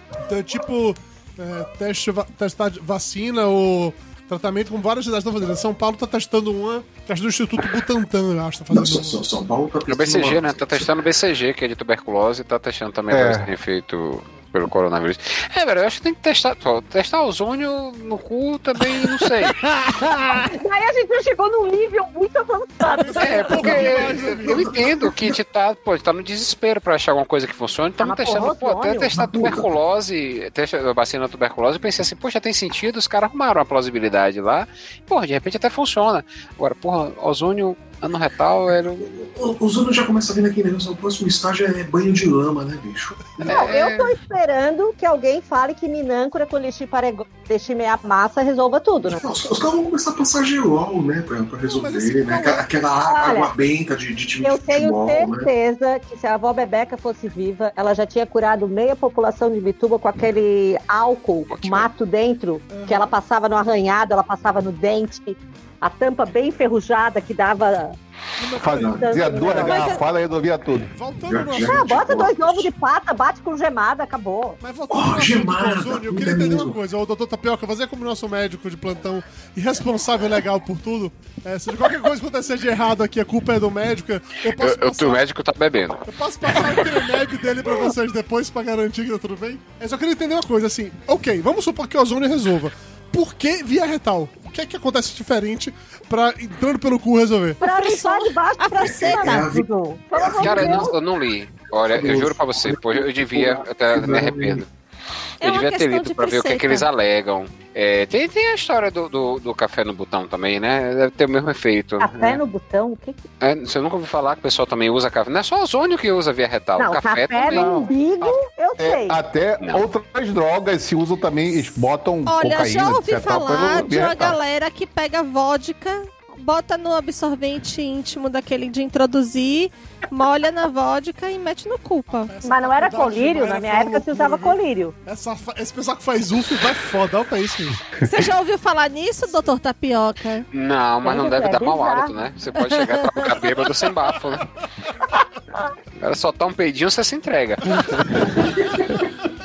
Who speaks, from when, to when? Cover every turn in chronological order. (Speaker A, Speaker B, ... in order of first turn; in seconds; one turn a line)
Speaker A: 0.2-9.2
Speaker B: 8.7-10.9
Speaker C: 9.9-19.6
Speaker D: 13.1-13.5
Speaker E: 20.4-23.9
Speaker A: 22.8-24.8
Speaker C: 23.2-39.1
Speaker B: 23.6-25.4
Speaker E: 28.0-29.1
Speaker B: 29.1-29.7
Speaker B: 39.1-43.6
Speaker C: 43.4-44.1
Speaker E: 43.5-49.2
Speaker B: 49.0-55.5
Speaker A: 51.6-52.7
Speaker E: 53.1-53.5
Speaker E: 54.4-68.0
Speaker C: 61.5-61.9
Speaker A: 62.7-63.2
Speaker A: 68.4-70.0
Speaker D: 68.6-70.9
Speaker E: 68.9-70.0
Speaker A: 70.9-72.2
Speaker B: 71.3-72.7
Speaker E: 71.7-74.6
Speaker A: 74.6-85.3
Speaker B: 74.9-76.8
Speaker C: 84.6-86.8
Speaker A: 86.0-97.6
Speaker E: 97.6-101.0
Speaker F: 97.6-99.5
Speaker B: 98.8-100.9
Speaker C: 100.4-104.7
Speaker B: 101.8-104.7
Speaker F: 105.4-106.9
Speaker C: 105.4-112.4
Speaker E: 112.0-113.2
Speaker C: 113.4-117.9
Speaker E: 116.8-119.2
Speaker D: 117.5-124.4
Speaker C: 119.6-119.8
Speaker F: 122.3-132.3
Speaker A: 132.1-137.9
Speaker E: 132.4-134.9
Speaker F: 138.0-140.4
Speaker C: 140.5-144.5
Speaker E: 141.0-142.1
Speaker F: 142.7-143.3
Speaker C: 146.0-148.4